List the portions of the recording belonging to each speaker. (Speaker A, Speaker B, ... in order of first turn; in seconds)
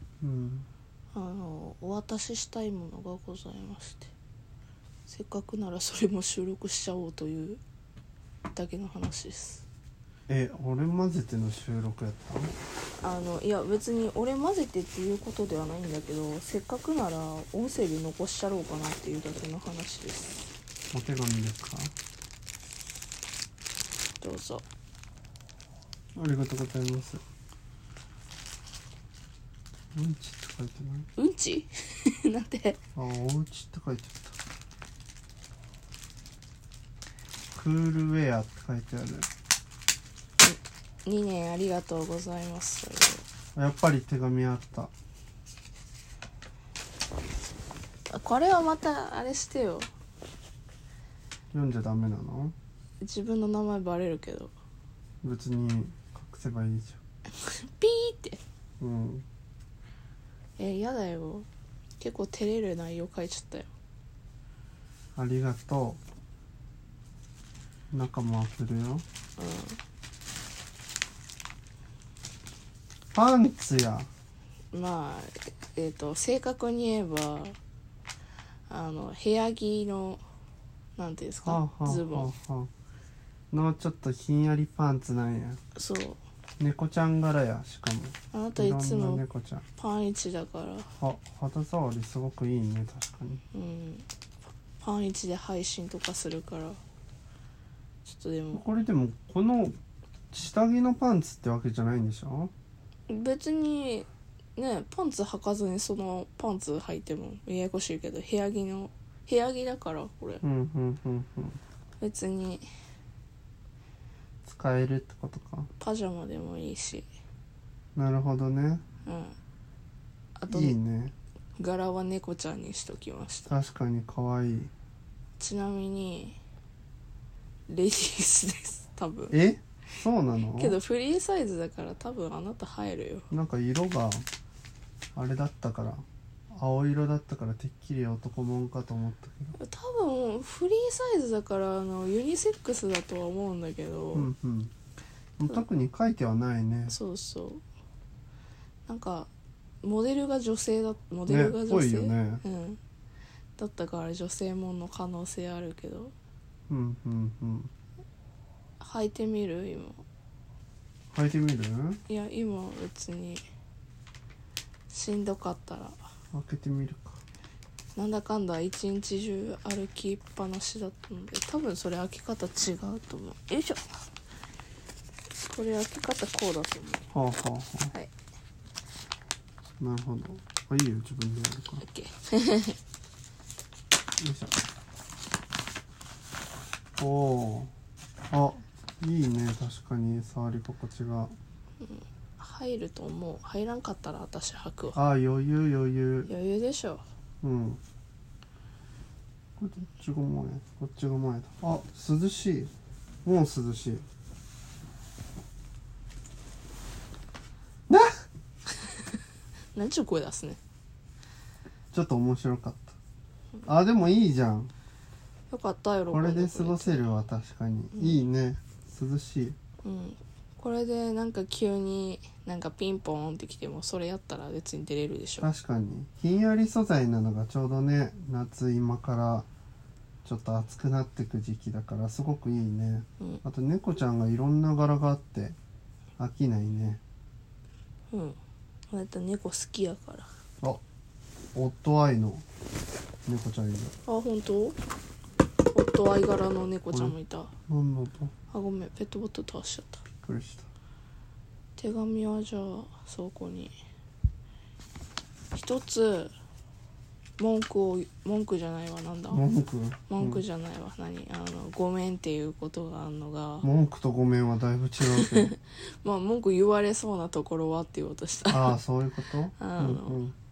Speaker A: 0.2-0.7, 10.3-12.5, 20.9-21.9, 26.1-27.2, 29.9-31.1, 33.0-34.4, 37.5-39.3, 43.5-44.9, 51.5-52.5, 55.2-57.0, 58.8-59.2, 65.2-66.0, 67.9-69.0, 73.1-74.1, 81.4-82.7, 83.5-85.6, 86.6-89.7, 91.0-93.4, 98.5-99.8, 100.3-102.5, 110.4-111.6, 114.4-115.7, 118.0-118.8, 120.5-121.1, 123.5-124.7, 129.3-130.8, 133.3-134.2, 135.1-139.6, 144.1-144.7, 145.4-146.9, 151.3-152.4, 156.7-157.7, 161.1-162.0, 166.3-167.2, 177.1-177.9, 179.8-181.8, 184.2-184.6, 187.0-187.7, 188.3-191.3, 194.9-196.3, 197.4-197.8, 199.6-202.7, 203.2-204.0, 207.9-208.2, 211.9-213.0, 213.6-214.7, 216.1-219.6, 225.4-229.5, 230.2-235.6, 236.2-237.0, 241.5-242.4, 243.2-243.9, 246.9-247.2, 247.7-248.3, 250.2-250.7, 259.3-260.4, 263.6-265.5, 268.5-270.3
Speaker B: 1.1-4.1, 5.1-7.6, 8.5-9.6, 13.0-20.5, 24.2-24.6, 31.2-32.8, 40.4-43.2, 48.1-49.9, 53.0-54.5, 57.4-58.4, 60.6-61.5, 62.0-63.7, 69.4-69.8, 74.7-77.6, 78.7-80.2, 81.0-82.3, 85.7-86.2, 88.3-89.2, 89.8-90.9, 93.5-94.1, 94.8-96.8, 98.0-98.6, 103.1-110.4, 112.0-112.6, 115.8-117.1, 119.0-119.3, 120.4-120.8, 121.6-123.5, 125.4-126.4, 127.7-129.3, 130.6-133.3, 139.6-144.3, 146.9-147.6, 148.9-149.3, 149.8-152.8, 153.6-156.1, 158.8-160.0, 162.1-163.4, 164.9-165.9, 167.9-173.9, 175.4-177.1, 181.8-182.8, 191.8-195.0, 196.3-197.0, 209.7-210.6, 215.5-217.1, 219.8-225.5, 238.1-238.4, 238.9-240.3, 244.1-244.8, 245.7-247.5, 248.5-250.0, 251.8-253.7, 255.5-256.3, 257.4-259.4, 260.1-263.7, 265.1-268.8, 269.6-270.2